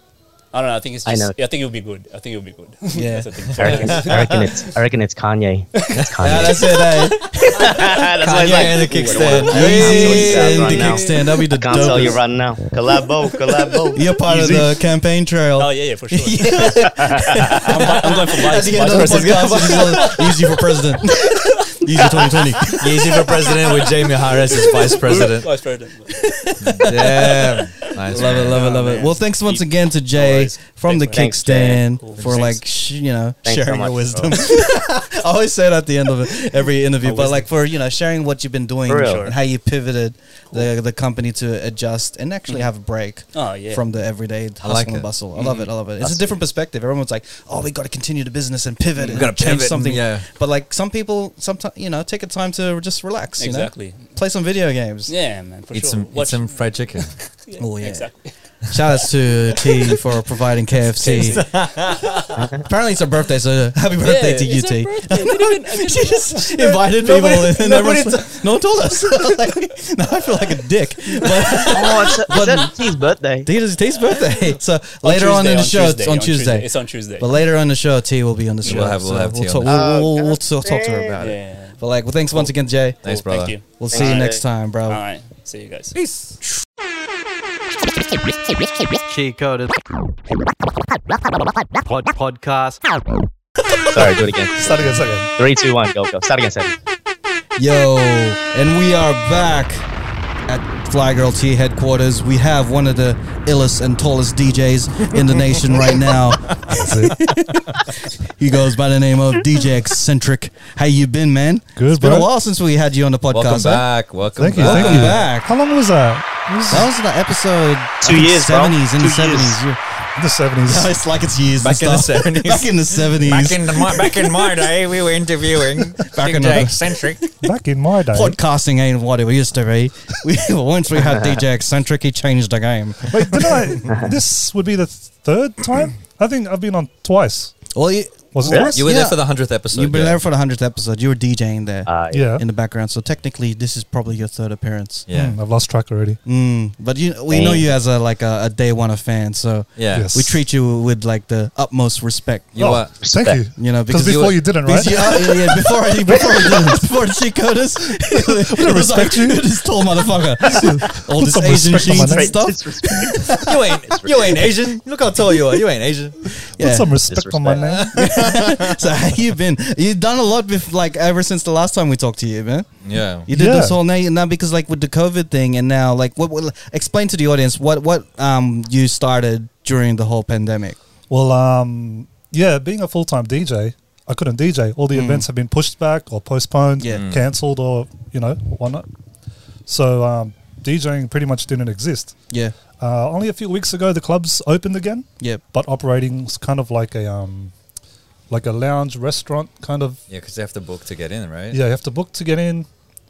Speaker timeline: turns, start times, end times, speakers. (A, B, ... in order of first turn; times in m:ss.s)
0:00.5-0:04.2 A
0:01.0-0:01.4 B
0:02.9-0:03.5 C
0:03.6-0:06.8 B
0:03.6-0:04.4 D
0:06.0-0:06.6 D
0:06.2-0:07.4 C
0:07.4-0:14.0 B
0:08.2-0:11.0 D
0:09.2-0:12.2 C
0:11.7-0:12.1 A
0:13.9-0:23.6 C
0:15.6-0:20.3 A
0:18.8-0:20.1 D
0:21.2-0:22.7 A
0:22.8-0:25.5 D
0:24.7-0:29.2 A
0:26.3-0:27.6 C
0:26.6-0:28.6 D
0:28.1-0:55.1 C
0:30.2-0:32.6 A
0:31.1-0:31.8 B
0:33.4-0:34.5 B
0:37.0-0:37.5 A
0:38.9-0:39.3 B
0:39.0-0:39.4 A
0:43.3-0:43.8 A
0:44.6-0:45.1 D
0:45.4-0:45.7 A
0:49.0-0:49.3 A
0:49.1-0:50.3 D
0:53.4-0:54.1 A
0:55.1-0:58.3 A
0:55.7-0:57.2 D
0:57.6-0:58.2 C
0:58.7-1:01.5 C
1:01.0-1:02.2 A
1:01.1-1:02.4 D
1:02.4-1:02.6 B
1:02.6-1:12.7 C
1:04.0-1:08.1 A
1:07.2-1:08.0 D
1:11.7-1:13.5 B
1:13.4-1:23.0 C
1:15.0-1:17.4 A
1:18.6-1:18.9 A
1:18.6-1:19.9 D
1:19.6-1:21.2 B
1:21.2-1:22.5 A
1:23.0-1:23.6 D
1:23.0-1:24.3 A
1:23.7-1:25.0 C
1:23.9-1:24.4 B
1:24.9-1:26.0 A
1:26.0-1:26.4 D
1:29.0-1:29.9 C
1:31.8-1:32.8 C
1:33.9-1:36.7 B
1:34.5-1:35.3 E
1:37.6-1:39.9 C
1:40.5-1:47.7 C
1:46.5-1:47.3 D
1:46.7-1:47.2 E
1:48.2-1:53.9 C
1:51.8-1:52.3 E
1:53.3-1:55.2 D
1:54.4-1:56.9 E
1:54.6-1:55.5 C
1:56.7-1:59.8 C
1:58.0-1:59.5 B
2:00.2-2:00.9 E
2:00.7-2:04.6 C
2:01.6-2:07.2 D
2:06.0-2:07.5 C
2:07.4-2:08.4 E
2:08.1-2:13.8 C
2:11.1-2:11.4 B
2:13.1-2:17.7 E
2:17.7-2:25.1 C
2:18.3-2:18.8 E
2:18.5-2:18.7 B
2:18.7-2:20.2 D
2:21.9-2:22.3 B
2:22.1-2:22.4 E
2:25.1-2:25.4 D
2:25.1-2:26.2 E
2:26.3-2:32.9 C
2:27.3-2:27.6 B
2:29.8-2:30.1 D
2:29.9-2:30.4 E
2:32.5-2:33.1 D
2:32.6-2:35.4 E
2:33.0-2:33.4 B
2:33.6-2:43.5 C
2:33.9-2:34.4 D
2:38.2-2:39.4 E
2:40.5-2:42.5 E
2:41.8-2:44.4 B
2:43.4-2:46.3 D
2:46.6-2:47.0 C
2:46.6-2:48.0 E
2:47.1-2:47.8 B
2:47.6-2:48.8 D
2:47.9-2:52.7 C
2:52.8-2:53.3 D
2:53.3-3:00.8 C
2:53.3-2:53.8 E
3:01.1-3:08.9 E
3:04.9-3:05.3 C
3:07.0-3:07.2 D
3:09.7-3:12.2 E
3:12.3-3:12.6 C
3:12.8-3:17.5 E
3:18.3-3:20.0 E
3:20.1-3:21.6 D
3:21.5-3:22.7 E